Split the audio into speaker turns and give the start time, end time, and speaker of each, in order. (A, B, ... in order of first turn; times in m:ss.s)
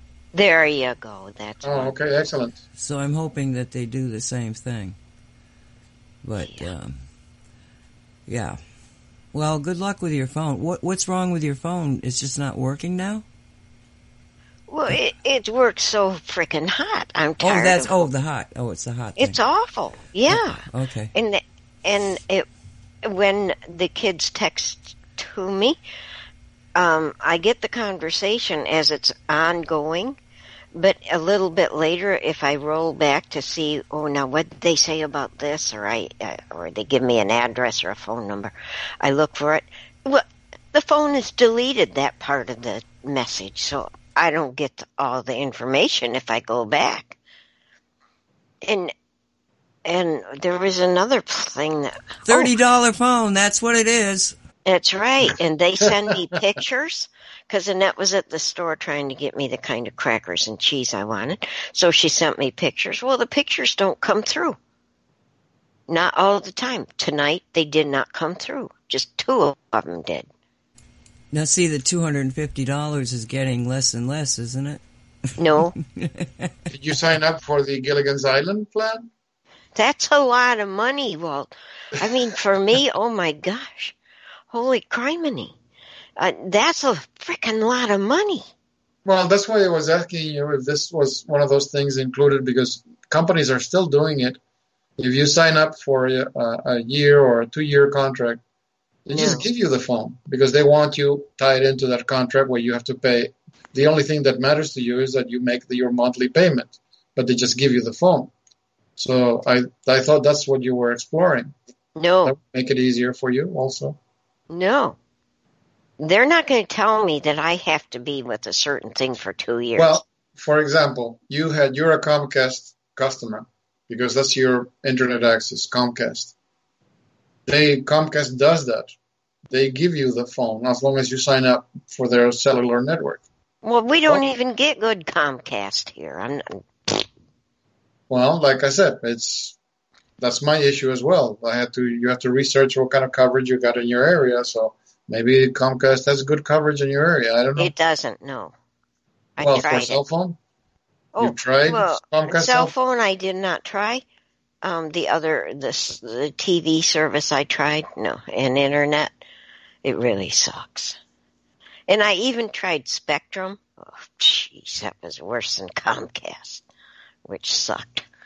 0:00.3-0:01.9 A
0:01.6-0:02.6 B
0:02.8-0:05.0 C
0:06.2-0:06.9 C
0:06.4-0:06.7 A
0:08.3-0:08.6 C
0:09.3-0:13.2 C
0:14.7-0:18.1 A
0:17.4-0:19.4 C
0:19.2-0:22.5 A
0:20.3-0:21.1 C
0:23.0-0:25.8 A
0:26.7-0:30.2 A
0:30.7-0:47.2 A
0:48.6-0:48.9 A
0:49.8-0:52.5 A
0:52.3-0:54.3 C
0:54.6-1:04.6 A
1:05.9-1:10.3 A
1:11.3-1:14.8 C
1:15.4-1:15.7 A
1:16.0-1:16.5 C
1:16.7-1:19.0 B
1:19.8-1:23.9 A
1:24.5-1:25.5 A
1:26.2-1:28.4 A
1:29.0-1:34.4 B
1:35.0-1:38.4 B
1:39.0-1:48.3 B
1:39.1-1:39.5 A
1:49.0-1:51.5 B
1:52.0-1:52.3 A
1:52.2-1:54.0 B
1:54.5-1:55.0 A
1:56.0-2:00.0 A
1:59.8-2:06.3 B
2:07.4-2:08.9 B
2:09.5-2:13.2 B
2:13.6-2:17.1 A
2:18.1-2:19.6 B
2:20.2-2:27.7 B
2:27.6-2:28.5 A
2:29.4-2:30.0 A
2:29.4-2:30.4 B
2:31.1-2:34.0 A
2:31.2-2:32.7 B
2:34.6-2:39.1 A
2:39.8-2:41.0 A
2:41.9-2:46.6 A
2:47.2-2:48.1 A